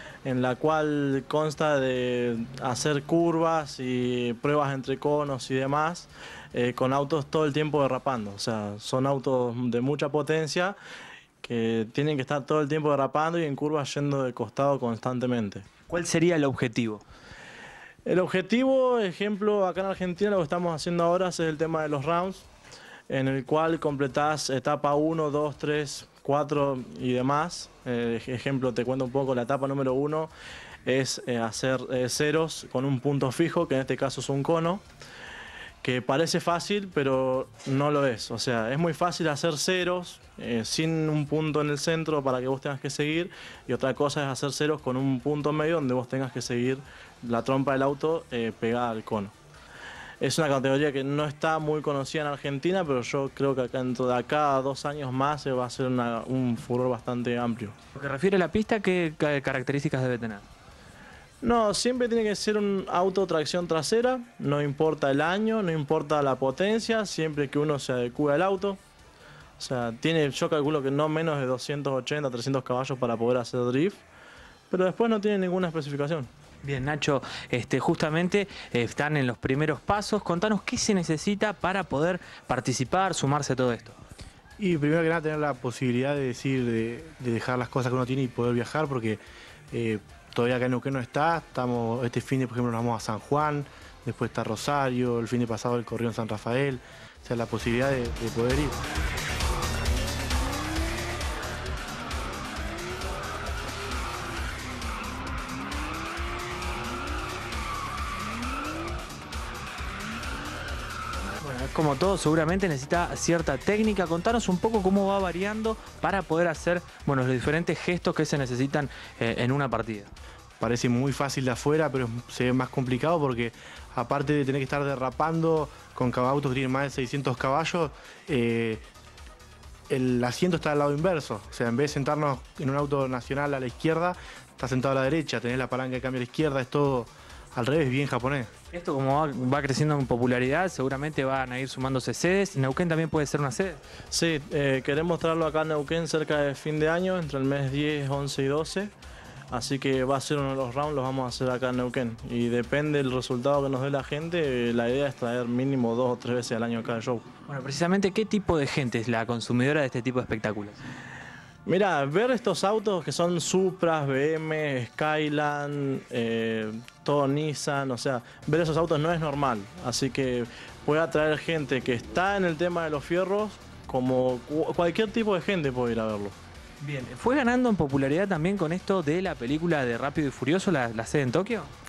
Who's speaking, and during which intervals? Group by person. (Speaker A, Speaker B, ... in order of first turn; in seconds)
Speaker A: 0.2-10.8, 11.4-15.7, 18.1-22.5, 23.1-30.3, 30.9-34.8, 35.8-49.3, 50.2-57.8, 61.4-68.8, 69.6-74.0, 74.7-76.3, 144.1-148.9, 149.5-157.3, 161.7-176.4
Speaker B: 15.9-17.0, 58.0-60.5, 76.6-84.0, 111.4-120.1, 138.7-143.8, 157.5-160.8, 176.8-181.7
Speaker C: 84.6-98.8, 120.6-128.8, 129.9-138.5